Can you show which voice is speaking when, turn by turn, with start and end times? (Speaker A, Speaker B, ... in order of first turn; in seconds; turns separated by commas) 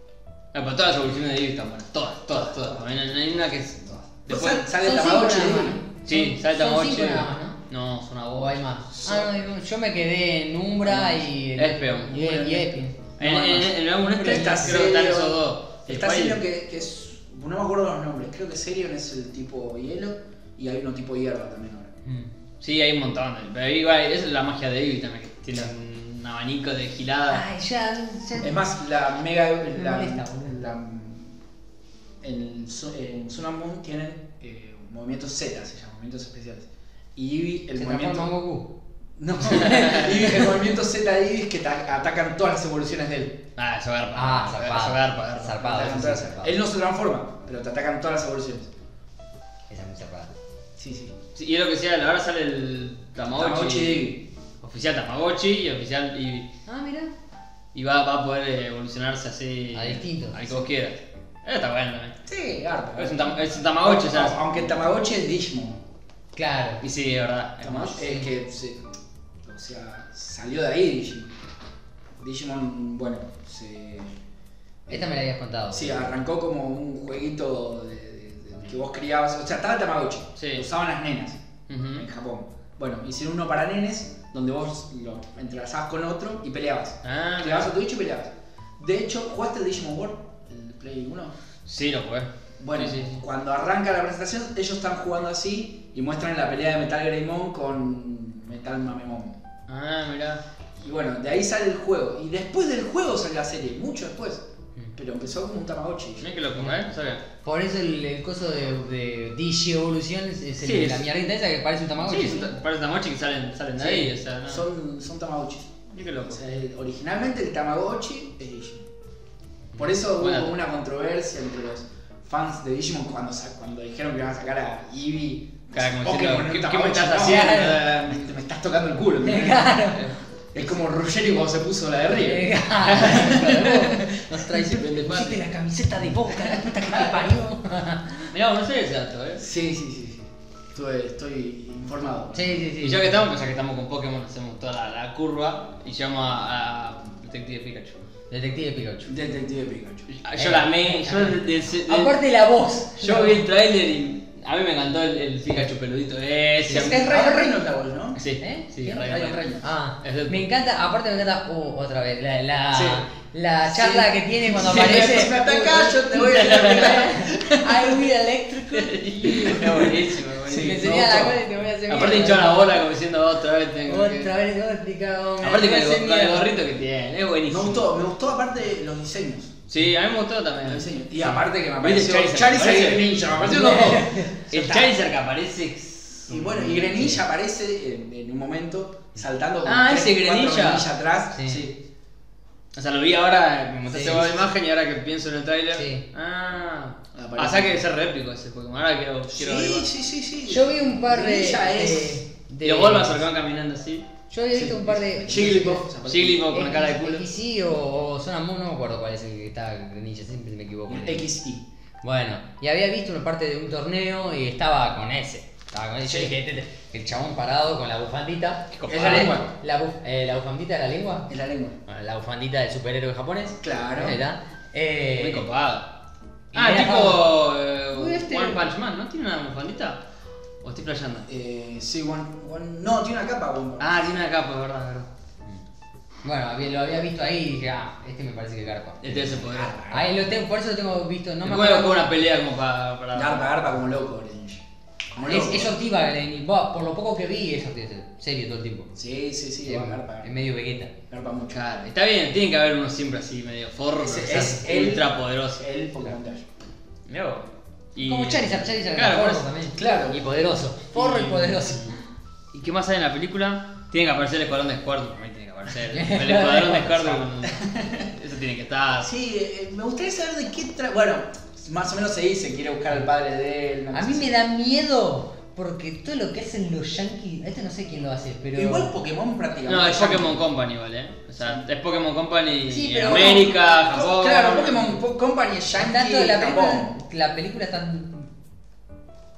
Speaker A: 0.5-4.7, Speaker B: 4.3-5.8, Speaker C: 4.8-7.6, Speaker A: 6.1-8.7, Speaker C: 8.3-14.8, Speaker B: 8.9-9.5, Speaker B: 10.8-11.2, Speaker A: 11.6-12.2, Speaker B: 12.1-21.9, Speaker A: 13.2-16.4, Speaker A: 22.6-27.4, Speaker C: 27.3-28.6, Speaker B: 28.4-31.4, Speaker C: 29.7-30.6, Speaker B: 32.2-38.3, Speaker C: 37.8-38.7, Speaker B: 39.2-43.4, Speaker C: 39.4-40.5, Speaker A: 39.6-40.1, Speaker A: 43.6-45.6, Speaker C: 44.1-46.6, Speaker B: 45.6-48.7, Speaker C: 49.7-50.3, Speaker B: 50.8-51.1, Speaker A: 51.4-56.5, Speaker B: 53.3-54.2, Speaker C: 56.7-57.1, Speaker A: 57.7-62.2, Speaker C: 59.7-60.6, Speaker B: 62.3-65.8, Speaker A: 63.0-64.4, Speaker C: 66.3-66.8, Speaker A: 66.8-68.0, Speaker B: 67.6-68.8, Speaker C: 68.0-68.3, Speaker B: 69.4-71.3, Speaker B: 72.2-74.1, Speaker C: 74.9-76.2, Speaker B: 75.7-81.4, Speaker A: 80.4-80.7, Speaker A: 81.7-82.0, Speaker B: 82.0-91.3, Speaker A: 87.0-87.7, Speaker A: 91.7-93.2, Speaker B: 92.6-99.4, Speaker A: 99.7-100.4, Speaker B: 100.8-104.4, Speaker B: 105.0-106.3, Speaker A: 106.2-107.2, Speaker C: 107.4-112.5, Speaker A: 110.6-111.1, Speaker A: 112.0-114.7, Speaker B: 113.8-118.9, Speaker A: 115.9-116.4, Speaker B: 119.8-129.8, Speaker A: 120.1-120.6, Speaker A: 125.7-128.2, Speaker C: 127.2-127.8, Speaker C: 129.2-130.0, Speaker A: 129.9-130.7, Speaker B: 130.5-135.4, Speaker C: 132.2-138.3, Speaker A: 132.9-133.5, Speaker A: 134.4-135.3, Speaker B: 136.3-137.3, Speaker A: 138.3-139.4, Speaker B: 139.4-142.6, Speaker C: 142.3-143.2, Speaker A: 142.8-148.0, Speaker C: 148.3-149.1, Speaker B: 149.1-150.1, Speaker A: 150.2-152.2, Speaker C: 150.4-153.5, Speaker A: 153.0-157.2, Speaker C: 156.7-157.5, Speaker B: 156.7-158.2, Speaker A: 158.2-160.4, Speaker C: 158.4-172.9, Speaker B: 159.0-159.6, Speaker B: 162.7-163.0, Speaker B: 163.7-168.0, Speaker A: 164.8-165.1, Speaker A: 166.3-167.0, Speaker A: 168.7-170.9, Speaker B: 170.5-171.4, Speaker A: 171.9-174.3, Speaker C: 173.9-176.5, Speaker A: 175.4-177.8, Speaker B: 177.5-179.6, Speaker A: 179.7-183.8, Speaker B: 180.7-185.0, Speaker C: 183.4-184.4, Speaker A: 184.5-186.9, Speaker B: 186.3-191.8, Speaker C: 186.9-187.2, Speaker A: 189.7-190.9, Speaker C: 191.3-191.7, Speaker A: 192.7-199.9, Speaker C: 193.9-194.3, Speaker B: 194.1-194.4, Speaker C: 195.7-196.0, Speaker B: 197.1-197.8, Speaker B: 199.3-202.2, Speaker C: 200.5-203.2, Speaker A: 202.6-204.1, Speaker C: 204.3-205.9, Speaker B: 204.5-206.6, Speaker A: 206.1-207.2, Speaker C: 206.5-211.3, Speaker B: 210.9-211.6, Speaker C: 212.0-221.3, Speaker B: 216.1-216.3, Speaker A: 218.7-219.4, Speaker B: 218.9-219.5, Speaker B: 221.3-221.8, Speaker C: 221.9-225.5, Speaker B: 223.6-224.2, Speaker A: 225.2-225.9, Speaker C: 226.5-227.3, Speaker A: 226.5-230.0, Speaker C: 227.9-228.7, Speaker A: 230.6-231.3, Speaker B: 231.3-234.0, Speaker A: 233.8-235.1, Speaker C: 236.2-242.1, Speaker A: 239.0-239.8, Speaker B: 239.2-240.2, Speaker A: 241.4-243.5, Speaker B: 243.1-244.6, Speaker B: 245.1-245.8, Speaker C: 245.2-248.9, Speaker B: 249.0-250.3, Speaker C: 249.6-250.9, Speaker B: 251.1-251.9, Speaker A: 251.5-255.6, Speaker B: 254.0-256.5, Speaker A: 257.1-259.5, Speaker C: 258.0-262.0, Speaker B: 259.8-260.2, Speaker A: 260.9-262.0, Speaker A: 262.5-269.1, Speaker C: 265.9-267.2, Speaker B: 267.4-268.1, Speaker B: 269.0-274.3, Speaker C: 273.9-278.9, Speaker B: 278.5-280.4, Speaker A: 279.7-285.0, Speaker C: 282.7-283.6, Speaker B: 283.1-287.0, Speaker C: 285.8-288.3